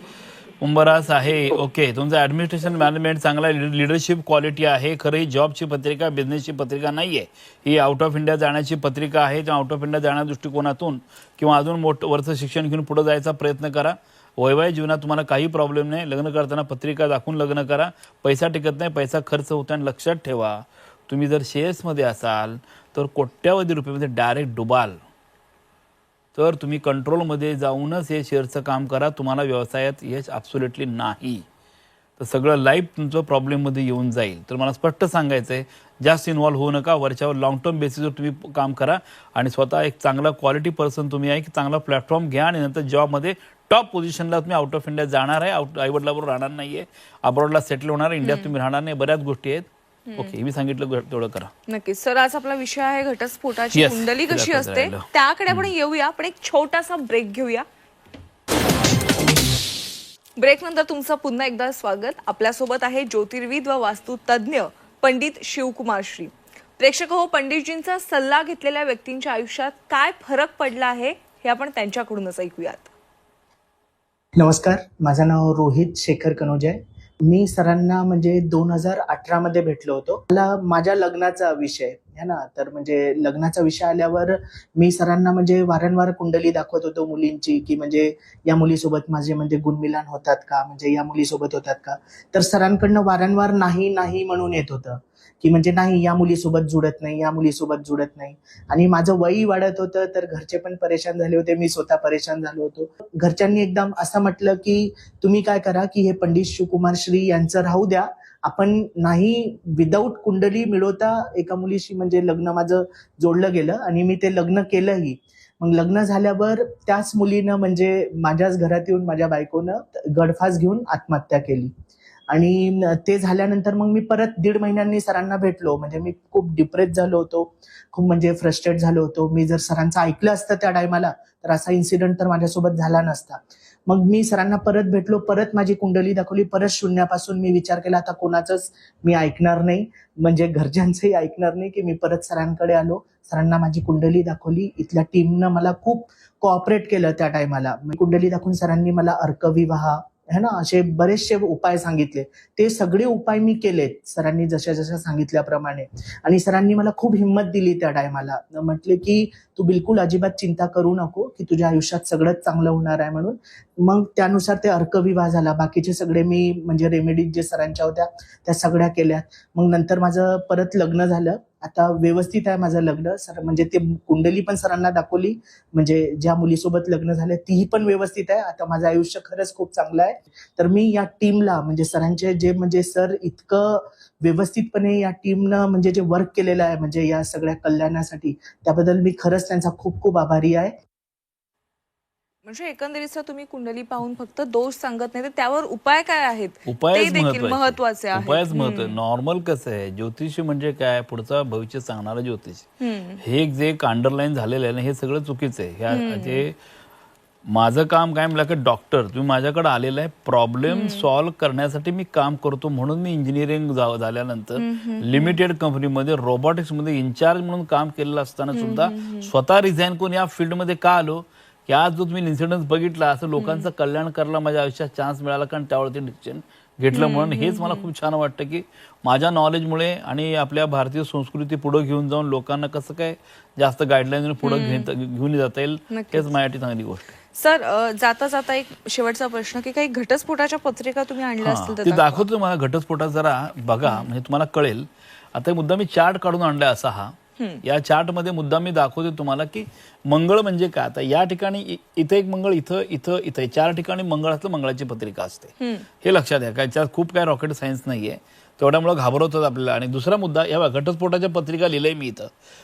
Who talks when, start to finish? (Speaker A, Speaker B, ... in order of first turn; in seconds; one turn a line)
Speaker A: 0.6-25.0
Speaker A: 26.4-31.4
Speaker A: 32.2-49.7
Speaker B: 48.2-48.5
Speaker A: 50.2-51.5
Speaker B: 51.7-57.7
Speaker A: 53.7-55.7
Speaker B: 60.4-72.9
Speaker C: 74.4-121.7
Speaker C: 122.3-190.8
Speaker B: 192.5-199.0
Speaker A: 196.7-202.7
Speaker B: 202.8-203.2
Speaker A: 203.2-206.6
Speaker B: 205.9-206.4
Speaker A: 207.5-237.1
Speaker B: 210.7-211.1
Speaker B: 214.6-215.4
Speaker B: 218.5-219.3
Speaker B: 223.4-223.7
Speaker B: 226.9-227.9
Speaker B: 234.4-234.9
Speaker B: 235.9-236.3
Speaker B: 237.4-242.2
Speaker A: 241.4-262.3
Speaker B: 255.6-255.8